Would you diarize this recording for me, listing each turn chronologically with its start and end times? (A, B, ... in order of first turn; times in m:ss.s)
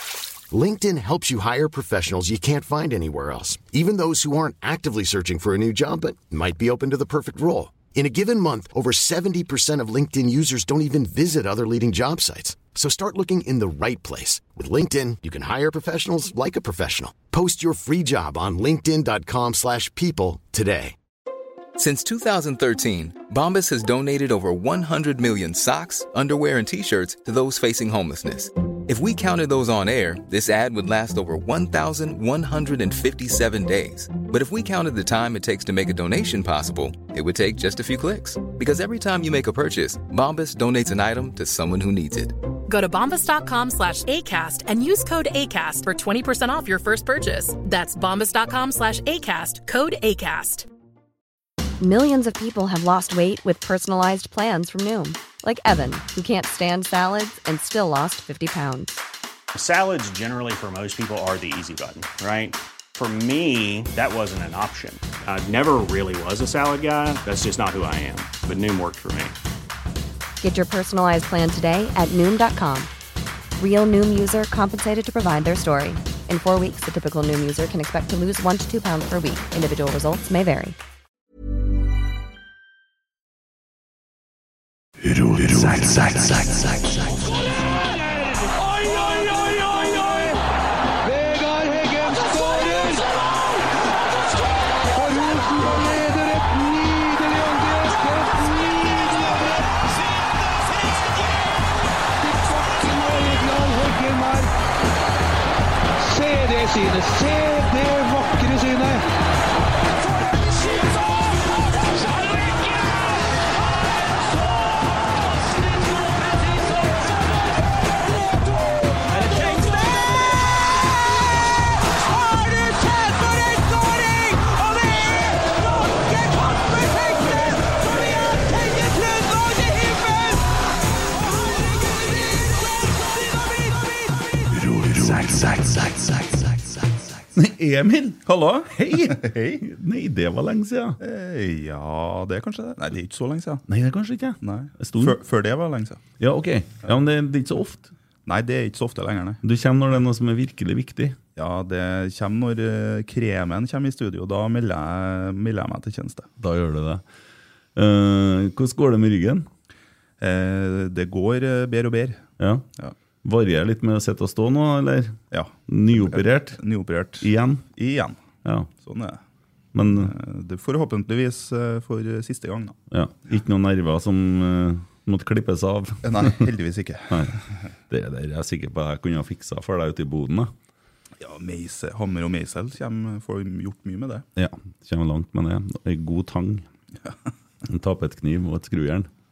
0:00.5-0:20.9 A
0:21.8-0:42.4 B
0:42.7-0:50.7 C
0:51.8-0:59.0 D
0:59.5-1:09.4 E
1:10.4-1:12.9 D
1:13.6-1:20.8 D
1:26.6-1:30.4 F
1:31.0-1:33.2 F
1:34.8-1:41.3 F
1:42.2-1:44.5 F
1:46.0-1:49.0 F
1:50.5-1:51.0 F
1:51.9-1:52.8 F
1:59.2-1:59.6 F
2:14.8-2:15.6 G
2:17.3-2:21.0 G
2:18.3-2:19.6 H
2:21.0-2:23.6 H
2:23.7-2:25.2 G
2:24.4-2:26.0 H
2:26.2-2:27.9 G
2:28.2-2:29.4 H
2:29.4-2:31.2 G
2:31.4-2:36.3 H
2:36.4-2:37.0 G
2:37.8-2:39.5 G
2:40.2-2:42.2 H
2:42.4-2:42.6 G
2:43.2-2:46.6 G
2:45.3-2:48.2 H
2:47.2-2:47.6 G
2:48.4-2:48.7 G
2:48.8-2:49.2 H
2:49.7-2:50.1 G
2:49.9-2:52.8 H
2:52.9-2:56.5 G
2:56.0-2:57.3 H
2:57.9-3:00.5 G
3:01.2-3:04.2 H
3:04.4-3:06.6 G
3:07.6-3:09.1 G